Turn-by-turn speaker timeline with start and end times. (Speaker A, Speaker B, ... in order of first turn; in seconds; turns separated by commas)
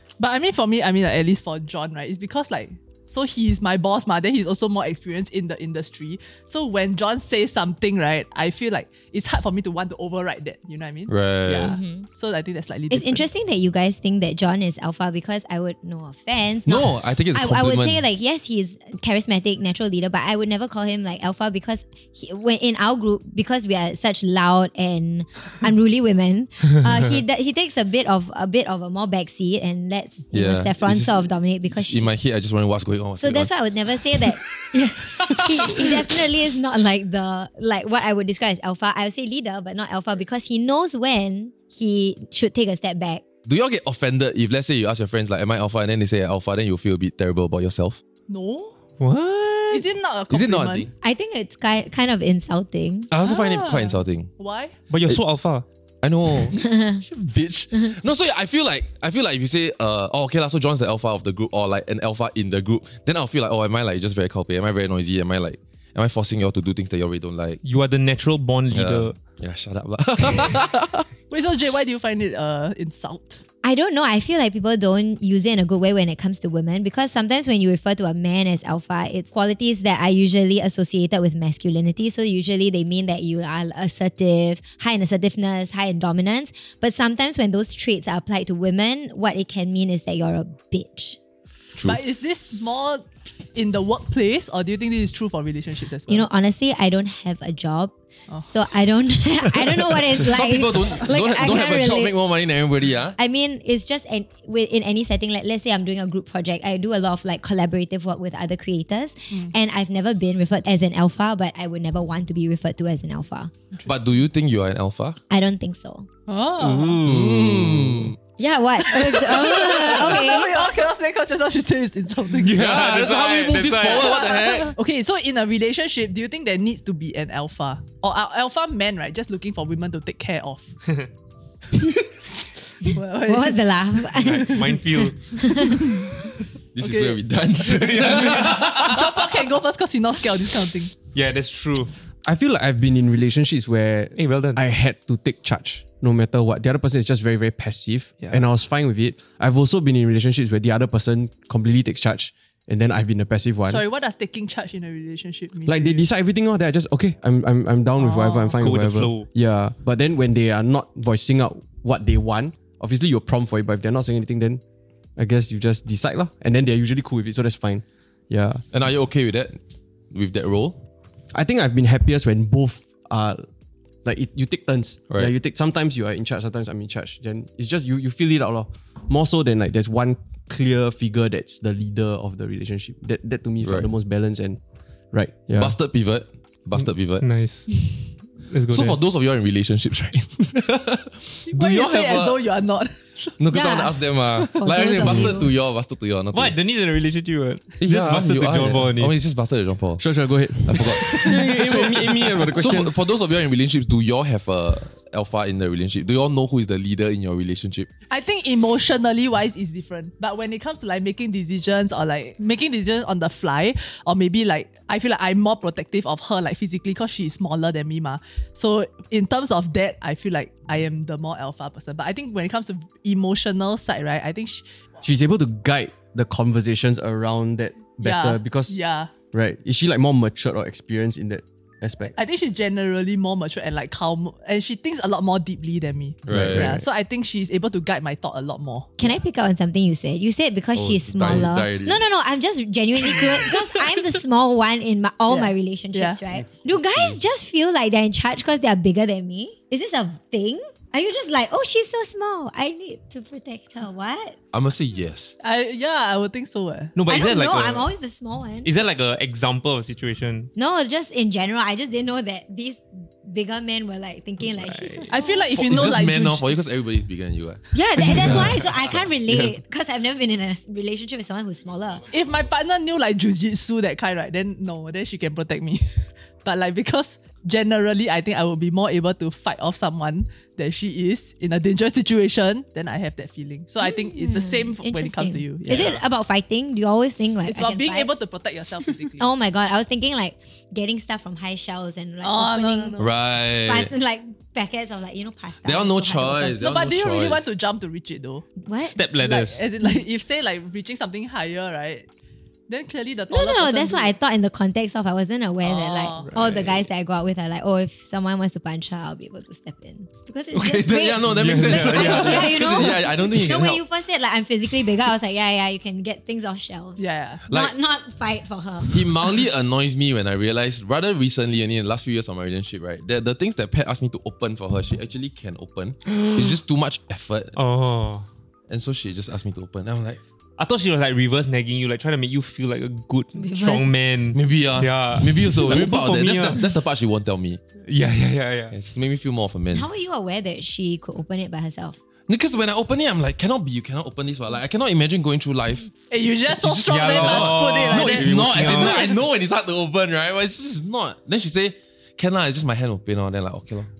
Speaker A: 0.2-13.2, Speaker B: 11.1-11.8, Speaker C: 11.6-12.1, Speaker C: 12.9-32.1, Speaker B: 16.7-18.0, Speaker B: 30.3-33.5, Speaker C: 33.2-43.2, Speaker B: 35.3-35.9, Speaker B: 43.5-48.0, Speaker A: 48.3-48.8, Speaker D: 49.0-49.9, Speaker A: 49.7-50.9, Speaker B: 50.3-50.9, Speaker C: 51.0-53.1, Speaker B: 53.1-54.3, Speaker A: 53.2-54.8, Speaker D: 54.9-55.6, Speaker B: 56.0-67.6, Speaker C: 56.6-57.0, Speaker D: 67.6-69.2, Speaker B: 68.7-71.1, Speaker A: 71.3-73.4, Speaker C: 73.6-91.2, Speaker A: 91.8-96.3, Speaker C: 96.1-102.1, Speaker B: 100.0-103.2, Speaker C: 103.2-113.5, Speaker B: 113.8-115.2, Speaker C: 115.3-116.1, Speaker A: 116.3-117.0, Speaker E: 116.6-118.1, Speaker B: 117.0-118.1, Speaker C: 118.4-120.7, Speaker A: 118.8-122.6, Speaker B: 122.4-124.8, Speaker D: 122.4-124.2, Speaker A: 123.9-130.7, Speaker A: 132.8-134.7, Speaker C: 133.2-135.9, Speaker D: 134.2-135.4, Speaker A: 135.7-136.1, Speaker B: 136.7-139.4, Speaker A: 136.8-137.2, Speaker D: 137.7-138.7, Speaker A: 138.4-140.9, Speaker D: 141.1-141.9, Speaker E: 142.2-153.8, Speaker D: 144.2-144.6, Speaker A: 153.6-156.1, Speaker E: 155.6-164.6, Speaker A: 158.0-158.6, Speaker D: 158.6-159.3, Speaker E: 165.2-168.6, Speaker B: 168.7-169.6, Speaker B: 170.1-170.8, Speaker E: 171.3-173.5, Speaker E: 174.0-184.6, Speaker B: 183.6-183.9, Speaker E: 185.1-185.8, Speaker B: 185.6-187.2, Speaker D: 187.2-187.9, Speaker D: 188.4-189.0, Speaker B: 188.7-192.4, Speaker A: 191.4-193.3, Speaker B: 193.4-196.6, Speaker C: 193.5-195.5, Speaker D: 196.3-199.1, Speaker B: 197.8-200.0, Speaker E: 200.0-202.9, Speaker B: 200.6-207.9, Speaker A: 208.1-224.7, Speaker E: 225.0-232.1, Speaker A: 228.0-229.1, Speaker A: 232.1-239.2, Speaker B: 236.3-236.8, Speaker E: 236.3-236.8, Speaker C: 239.0-254.4, Speaker B: 240.7-242.0, Speaker A: 245.3-246.2, Speaker B: 254.5-255.3, Speaker A: 255.4-257.0, Speaker D: 256.9-257.9, Speaker C: 257.1-258.7, Speaker D: 258.6-260.5, Speaker C: 260.6-265.5, Speaker D: 264.6-265.1, Speaker A: 265.1-266.5, Speaker B: 265.5-269.5, Speaker C: 267.7-272.0, Speaker A: 272.1-286.0, Speaker C: 283.8-288.1, Speaker A: 287.4-289.3, Speaker C: 289.2-296.6, Speaker A: 292.2-293.1, Speaker B: 293.0-293.9, Speaker B: 295.6-297.5, Speaker A: 296.6-298.4, Speaker C: 298.6-299.0, Speaker D: 298.8-299.7, Speaker A: 299.2-302.1, Speaker A: 302.7-304.1, Speaker C: 303.3-319.1, Speaker A: 305.6-306.6, Speaker D: 306.3-306.7, Speaker B: 310.5-313.8, Speaker D: 311.4-312.6, Speaker A: 317.0-317.4, Speaker B: 317.5-317.7, Speaker B: 318.9-327.6, Speaker D: 326.1-326.4, Speaker D: 327.6-328.2, Speaker B: 328.7-330.2, Speaker D: 330.6-336.6, Speaker C: 333.4-333.9, Speaker B: 334.3-337.6, Speaker D: 337.9-338.7, Speaker B: 338.7-339.9, Speaker C: 339.7-342.0, Speaker B: 342.3-345.9, Speaker A: 346.1-348.4, Speaker B: 346.5-353.9, Speaker D: 346.9-349.2